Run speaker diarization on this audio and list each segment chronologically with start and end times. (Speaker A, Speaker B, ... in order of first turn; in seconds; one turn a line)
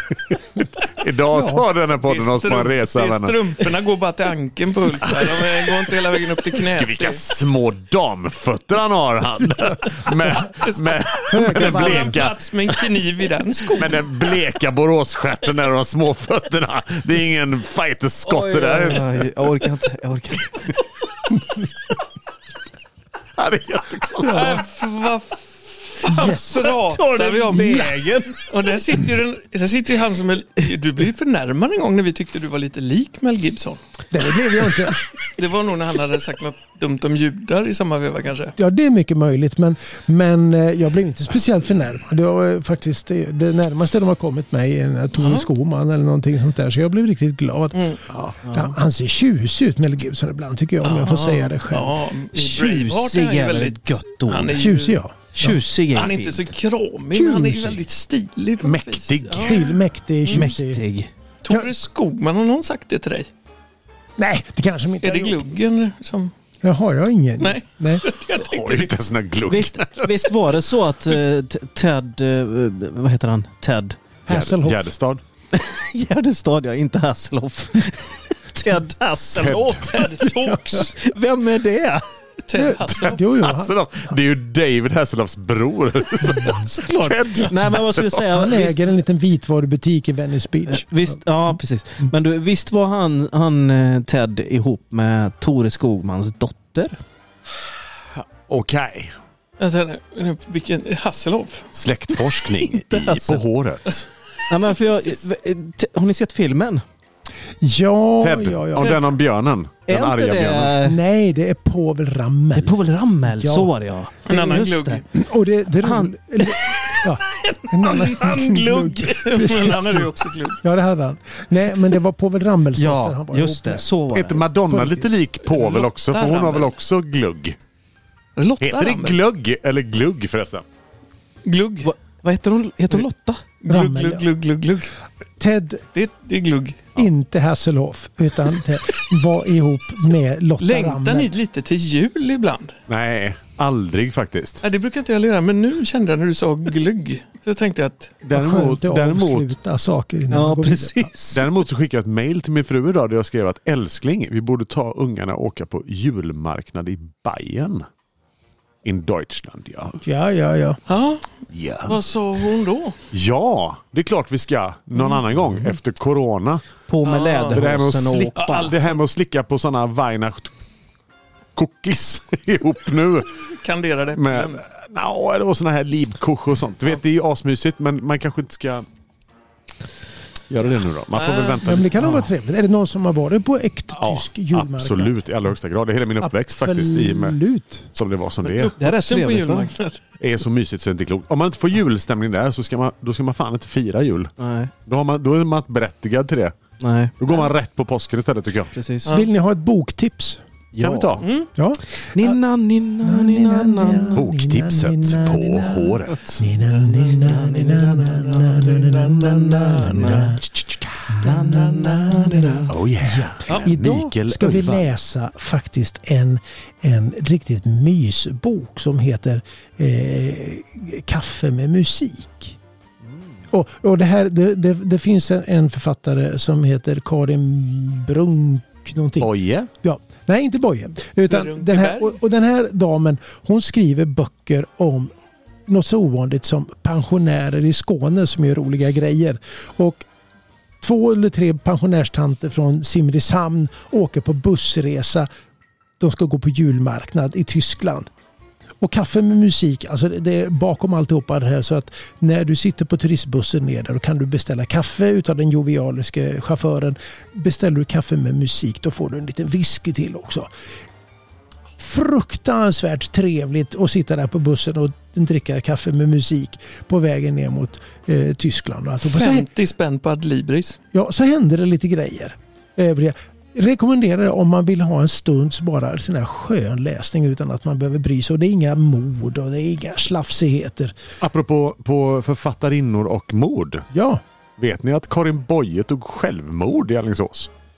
Speaker A: 0.3-3.4
Speaker B: 1.3-1.7
Speaker C: 2.0-7.2
Speaker A: 5.0-5.9
Speaker A: 6.5-12.9
Speaker C: 10.6-14.1
Speaker B: 11.3-12.1
Speaker A: 13.7-19.5
Speaker D: 18.2-20.7
Speaker A: 23.4-24.6
Speaker C: 24.3-33.8
Speaker B: 26.1-26.8
Speaker D: 26.6-28.5
Speaker B: 34.1-35.0
Speaker C: 35.2-38.5
Speaker B: 38.6-52.0
Speaker C: 45.2-45.5
Speaker C: 47.7-48.0
Speaker D: 48.5-48.8
Speaker C: 50.8-55.0
Speaker D: 52.3-54.7
Speaker B: 54.5-55.6
Speaker D: 55.4-56.5
Speaker C: 55.9-59.8
Speaker B: 57.1-57.8
Speaker A: 58.6-59.7
Speaker B: 59.4-60.8
Speaker D: 60.3-61.1
Speaker C: 61.5-63.3
Speaker B: 64.2-65.4
Speaker C: 65.0-66.3
Speaker B: 66.6-68.0
Speaker C: 67.4-69.0
Speaker A: 68.4-70.4
Speaker D: 69.5-74.0
Speaker B: 74.3-74.9
Speaker A: 74.3-75.2
Speaker D: 75.5-80.1
Speaker A: 79.3-79.9
Speaker C: 79.9-81.0
Speaker B: 80.2-80.8
Speaker D: 80.9-82.0
Speaker C: 82.5-83.2
Speaker B: 82.5-83.7
Speaker A: 82.9-88.4
Speaker B: 86.3-86.6
Speaker D: 86.7-88.8
Speaker B: 88.3-91.2
Speaker D: 90.7-97.0
Speaker A: 98.2-99.1
Speaker C: 99.6-101.7
Speaker A: 101.7-104.1
Speaker D: 102.7-103.4
Speaker D: 104.5-106.8
Speaker B: 107.6-109.0
Speaker A: 108.2-110.8
Speaker D: 109.9-111.0
Speaker B: 110.8-112.8
Speaker D: 112.5-115.0
Speaker B: 113.3-113.7
Speaker C: 114.3-115.0
Speaker B: 115.1-123.9
Speaker D: 115.8-116.6
Speaker C: 117.3-120.6
Speaker D: 118.5-118.8
Speaker D: 122.8-124.5
Speaker A: 124.1-127.6
Speaker B: 124.7-125.0
Speaker C: 125.5-126.7
Speaker C: 128.4-129.2
Speaker A: 128.6-130.7
Speaker C: 131.4-131.9
Speaker D: 131.8-133.4
Speaker C: 133.6-134.9
Speaker B: 133.7-134.3
Speaker B: 135.4-135.8
Speaker C: 135.9-136.9
Speaker B: 136.9-141.3
Speaker C: 140.6-142.8
Speaker A: 142.9-144.6
Speaker C: 144.6-148.2
Speaker A: 148.2-149.5
Speaker B: 148.3-151.1
Speaker D: 150.3-151.5
Speaker A: 151.3-157.9
Speaker A: 158.8-160.0
Speaker B: 160.0-160.8
Speaker C: 160.9-161.3
Speaker A: 161.5-162.0
Speaker C: 161.8-163.0
Speaker A: 163.1-166.7
Speaker D: 166.9-168.7
Speaker C: 167.0-167.6
Speaker A: 167.5-170.5
Speaker C: 168.4-169.0
Speaker A: 171.6-173.4
Speaker C: 173.5-174.6
Speaker A: 174.1-178.9
Speaker A: 180.5-182.1
Speaker C: 181.1-181.6
Speaker B: 181.6-185.2
Speaker D: 182.0-182.2
Speaker A: 183.9-187.4
Speaker B: 186.2-187.9
Speaker A: 187.9-188.7
Speaker C: 188.4-190.0
Speaker D: 188.8-189.7
Speaker A: 190.2-194.3
Speaker D: 194.4-194.7
Speaker A: 194.8-196.6
Speaker D: 196.8-197.1
Speaker A: 197.2-198.7
Speaker D: 198.7-199.1
Speaker C: 199.0-199.3
Speaker B: 199.1-200.4
Speaker D: 200.7-201.2
Speaker A: 200.8-201.3
Speaker C: 201.2-201.5
Speaker B: 201.6-202.4
Speaker D: 202.1-204.2
Speaker B: 203.0-210.4
Speaker A: 204.2-206.4
Speaker C: 206.7-210.2
Speaker D: 207.2-208.2
Speaker D: 209.6-210.4
Speaker A: 210.5-211.2
Speaker B: 211.1-222.6
Speaker D: 211.2-212.7
Speaker A: 212.7-214.9
Speaker B: 223.5-235.1
Speaker A: 229.2-229.7
Speaker C: 231.3-232.2
Speaker B: 235.7-240.1
Speaker B: 240.8-245.3
Speaker B: 246.0-248.1
Speaker B: 248.8-260.5
Speaker B: 261.8-269.5
Speaker C: 269.0-270.8
Speaker B: 270.9-280.9
Speaker A: 281.2-283.9
Speaker B: 283.9-284.2
Speaker A: 284.6-287.5